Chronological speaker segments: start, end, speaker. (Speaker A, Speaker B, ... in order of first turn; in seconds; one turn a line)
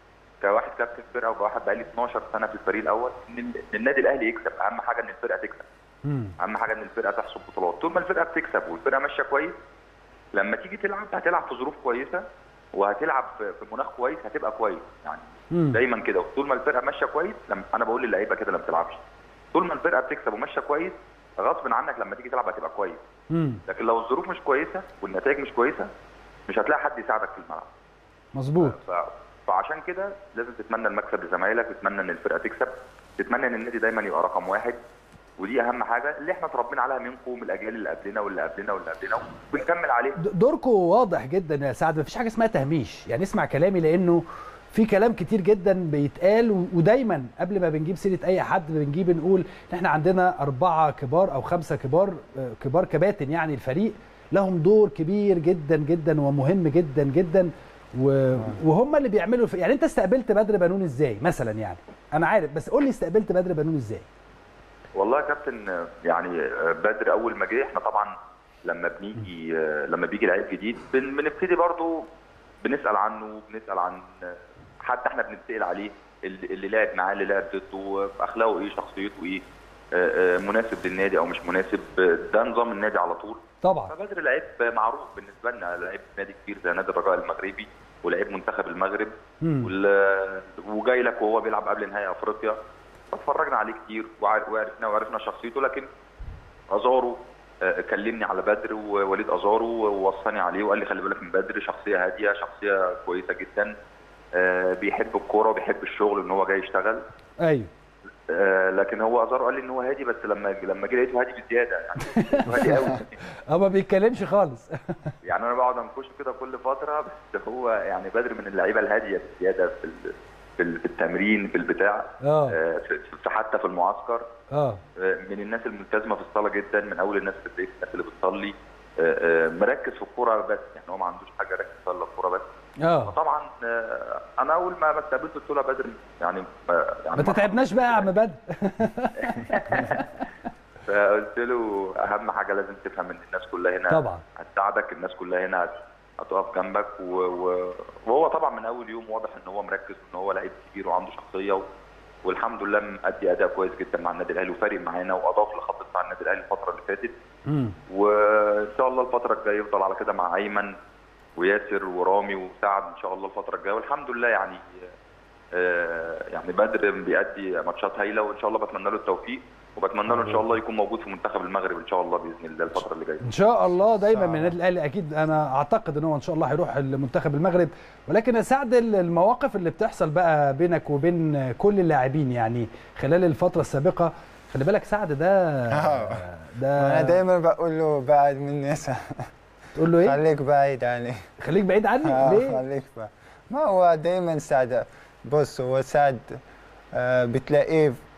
Speaker A: 0.4-5.7
Speaker B: 6.0-6.3
Speaker A: 6.4-9.6
Speaker A: 10.3-12.2
Speaker A: 12.7-19.0
Speaker B: 15.5-15.8
Speaker A: 19.5-23.0
Speaker B: 23.3-23.6
Speaker A: 23.7-25.9
Speaker A: 26.5-27.7
Speaker B: 28.4-28.8
Speaker A: 28.6-34.8
Speaker A: 35.4-40.2
Speaker B: 40.2-64.1
Speaker A: 65.0-68.1
Speaker A: 68.7-72.1
Speaker A: 72.6-79.4
Speaker A: 79.9-92.6
Speaker B: 83.6-83.9
Speaker B: 89.4-89.7
Speaker A: 93.1-95.9
Speaker A: 96.7-103.8
Speaker A: 104.4-107.0
Speaker B: 107.4-107.7
Speaker A: 108.3-113.2
Speaker B: 112.1-112.9
Speaker B: 113.5-115.0
Speaker A: 115.2-124.3
Speaker B: 122.2-122.6
Speaker B: 124.5-124.8
Speaker A: 125.0-132.4
Speaker B: 132.8-133.2
Speaker A: 133.1-138.1
Speaker B: 137.2-140.0
Speaker A: 139.2-140.1
Speaker A: 140.9-151.6
Speaker B: 143.9-144.2
Speaker A: 152.2-157.1
Speaker B: 157.5-157.8
Speaker A: 157.9-160.7
Speaker A: 161.4-164.6
Speaker A: 165.6-173.2
Speaker C: 170.1-170.5
Speaker B: 173.2-187.2
Speaker C: 173.8-174.6
Speaker C: 185.7-189.3
Speaker B: 189.8-190.2
Speaker C: 190.0-191.2
Speaker B: 191.4-192.6
Speaker C: 192.0-196.4
Speaker C: 196.9-198.0